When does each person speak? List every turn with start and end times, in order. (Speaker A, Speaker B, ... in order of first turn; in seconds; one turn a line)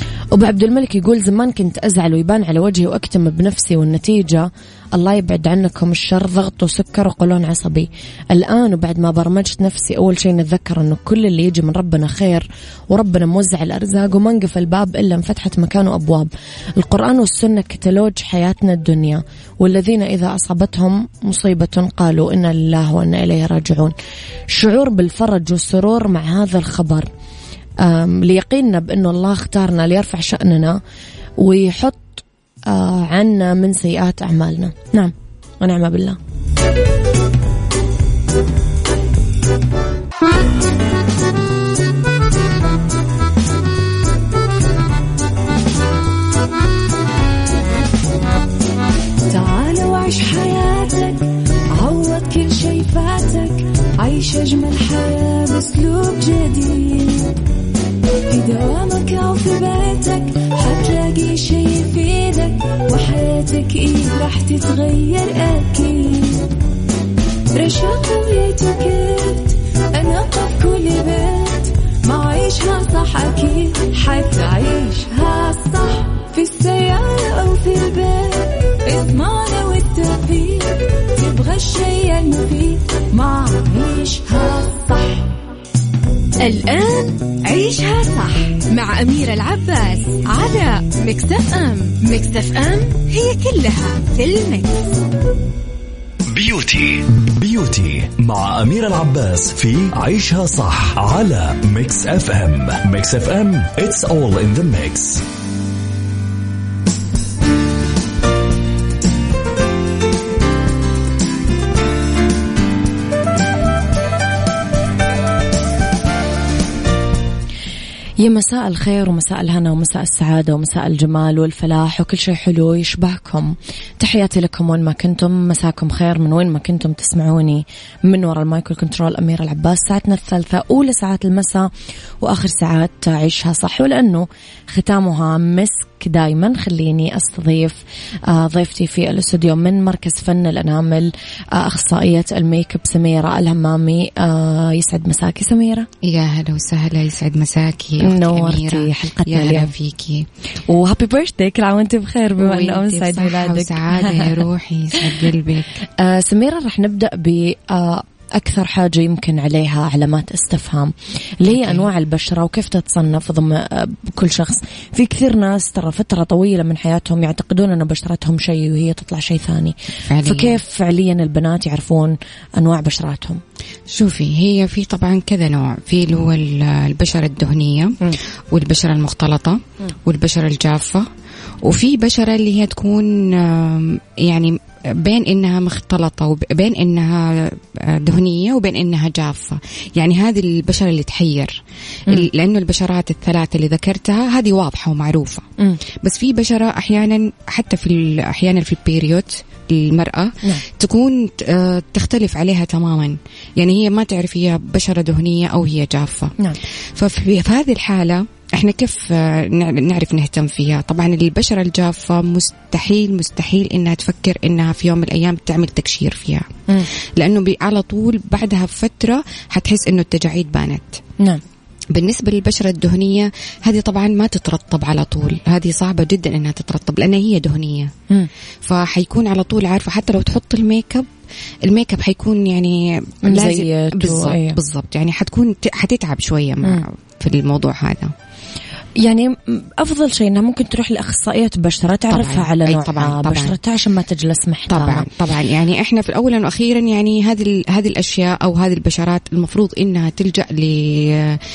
Speaker A: 0.3-23.9
Speaker A: 24.5-27.1
Speaker A: 27.8-30.8
Speaker A: 31.4-36.2
Speaker B: 49.3-57.4
Speaker B: 58.3-66.5
Speaker B: 67.5-85.3
Speaker C: 86.4-94.9
Speaker D: 96.3-105.2
Speaker A: 118.2-131.7
Speaker A: 132.2-145.9
Speaker E: 146.0-150.2
Speaker A: 148.0-149.7
Speaker A: 150.7-154.4
Speaker E: 152.4-155.8
Speaker A: 155.9-173.4
Speaker E: 161.5-161.8
Speaker E: 170.0-170.6
Speaker E: 173.9-181.1
Speaker E: 181.6-195.5
Speaker E: 196.0-206.4
Speaker E: 206.9-221.0
Speaker E: 221.9-227.9
Speaker E: 228.6-231.1
Speaker E: 231.6-238.1
Speaker A: 233.2-234.6
Speaker A: 239.0-245.1
Speaker E: 242.1-243.6
Speaker E: 244.7-251.4